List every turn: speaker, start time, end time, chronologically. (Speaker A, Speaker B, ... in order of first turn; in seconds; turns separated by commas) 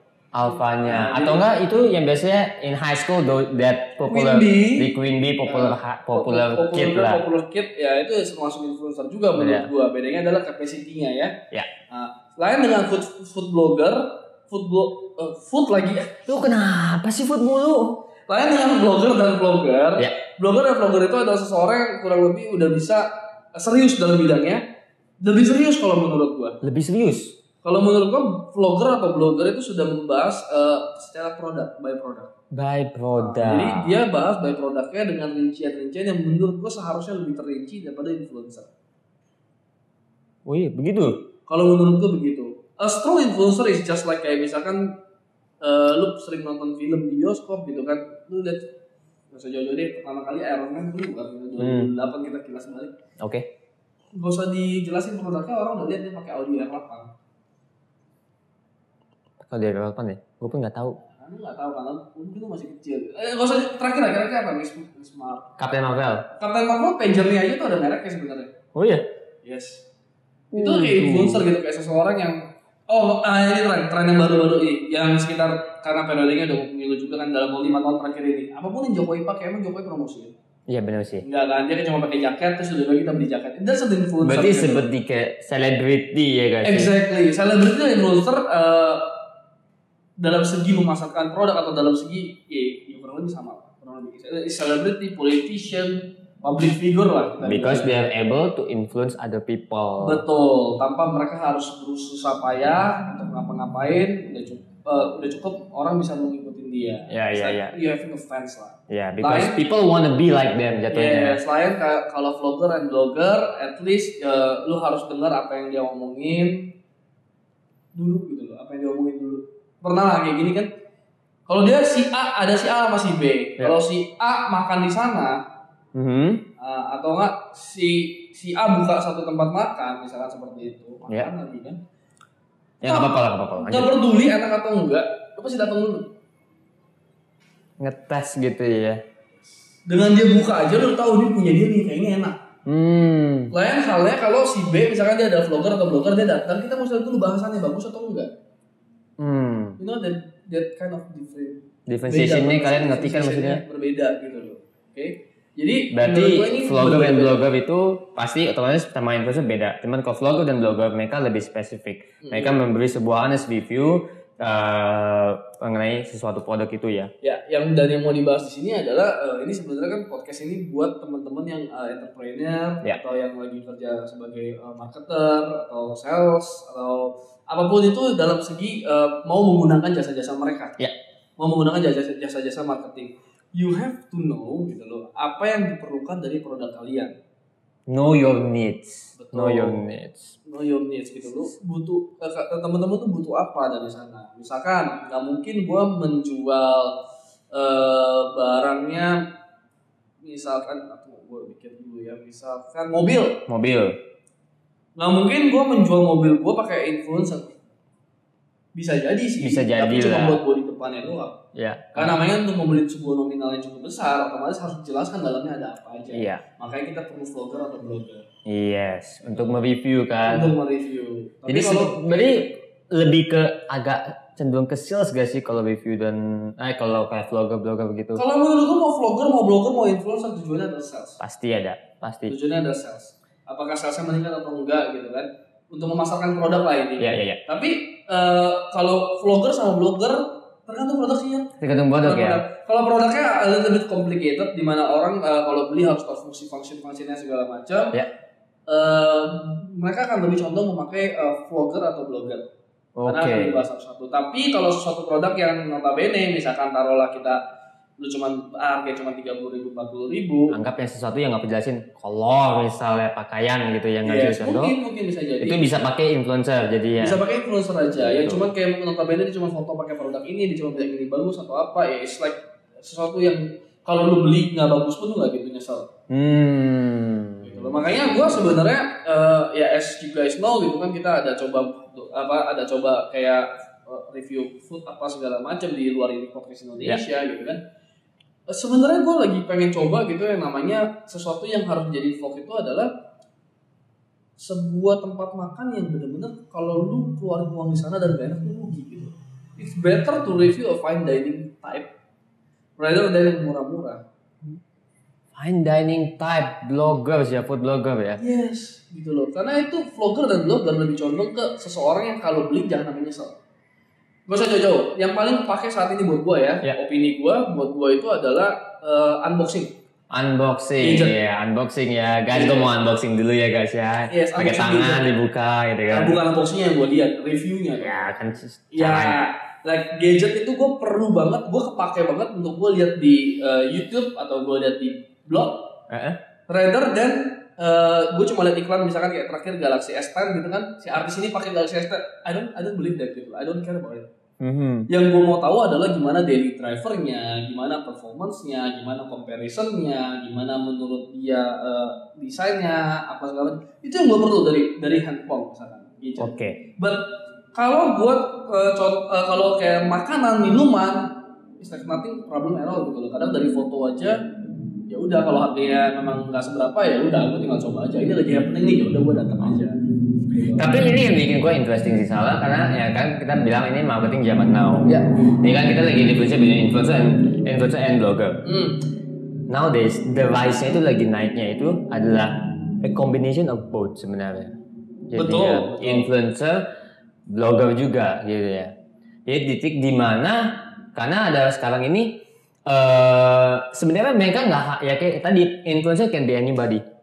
Speaker A: 0.3-7.2, Speaker B: 0.5-1.4, Speaker B: 4.0-4.9, Speaker B: 5.4-11.3, Speaker A: 9.3-9.7, Speaker B: 11.9-16.3, Speaker A: 16.3-18.0, Speaker B: 18.3-24.6, Speaker B: 25.2-26.6, Speaker A: 26.6-27.4, Speaker B: 27.6-32.3, Speaker A: 32.5-34.0, Speaker B: 33.2-38.7, Speaker A: 40.5-41.2, Speaker B: 41.5-44.9, Speaker B: 45.6-48.7, Speaker B: 49.3-52.9, Speaker A: 51.6-51.9, Speaker A: 53.2-53.5, Speaker B: 54.1-57.1, Speaker A: 59.4-61.0, Speaker B: 61.0-65.5, Speaker A: 65.6-66.3, Speaker B: 66.3-68.5, Speaker A: 68.7-69.0, Speaker B: 69.4-69.8, Speaker A: 70.5-71.4, Speaker B: 70.5-80.3, Speaker A: 80.7-81.2, Speaker B: 81.2-84.8, Speaker A: 84.2-86.9, Speaker B: 86.6-89.1, Speaker B: 90.2-97.9, Speaker A: 97.4-100.2, Speaker B: 100.0-109.6, Speaker A: 107.1-107.7, Speaker A: 108.9-111.4, Speaker B: 110.9-116.7, Speaker B: 117.9-120.7, Speaker B: 121.5-125.4, Speaker A: 125.9-126.5, Speaker B: 126.6-131.8, Speaker A: 132.8-133.9, Speaker B: 132.8-136.1, Speaker A: 137.8-139.0, Speaker B: 139.9-142.4, Speaker A: 142.7-143.5, Speaker B: 143.5-148.3, Speaker A: 149.2-149.8, Speaker B: 149.8-157.4, Speaker A: 151.9-153.6, Speaker A: 155.9-167.1, Speaker B: 162.2-162.6, Speaker B: 167.2-180.8, Speaker B: 181.4-187.1, Speaker A: 187.9-190.3, Speaker B: 189.2-189.8, Speaker B: 190.4-196.9, Speaker B: 197.5-199.2, Speaker B: 200.2-203.4, Speaker A: 203.5-204.0, Speaker B: 205.0-207.6, Speaker B: 208.7-211.4, Speaker A: 209.4-210.4, Speaker A: 211.6-212.2, Speaker B: 212.0-218.2, Speaker A: 216.1-216.4, Speaker A: 218.5-220.5, Speaker B: 219.2-219.5, Speaker B: 220.2-222.1, Speaker A: 221.5-228.2, Speaker B: 228.2-231.2, Speaker A: 231.2-232.3, Speaker B: 232.3-248.0, Speaker A: 237.0-237.4, Speaker A: 241.6-242.4, Speaker B: 248.7-252.5, Speaker A: 253.0-253.6, Speaker B: 253.1-257.4, Speaker B: 258.0-260.6, Speaker A: 260.5-264.8, Speaker B: 264.0-265.8, Speaker A: 265.4-267.2, Speaker B: 267.0-275.9, Speaker A: 267.9-268.5, Speaker A: 276.1-278.4, Speaker B: 277.4-287.6, Speaker B: 288.5-292.9, Speaker B: 294.4-301.9, Speaker B: 302.8-304.0, Speaker A: 305.3-308.2, Speaker B: 308.2-313.4, Speaker B: 314.3-319.7, Speaker A: 320.1-326.2, Speaker B: 320.8-321.2, Speaker B: 322.3-322.7, Speaker B: 324.1-325.1, Speaker B: 325.9-328.1, Speaker A: 327.8-329.2, Speaker B: 328.7-335.7, Speaker A: 335.9-336.2, Speaker B: 336.5-344.1, Speaker A: 344.4-344.9, Speaker B: 344.9-364.2, Speaker A: 356.2-356.6, Speaker B: 364.9-369.8, Speaker B: 370.3-370.7, Speaker A: 370.6-378.4, Speaker B: 378.4-378.9, Speaker A: 379.5-384.5, Speaker A: 385.1-386.6, Speaker B: 385.1-386.1, Speaker A: 387.3-388.7, Speaker A: 389.2-396.8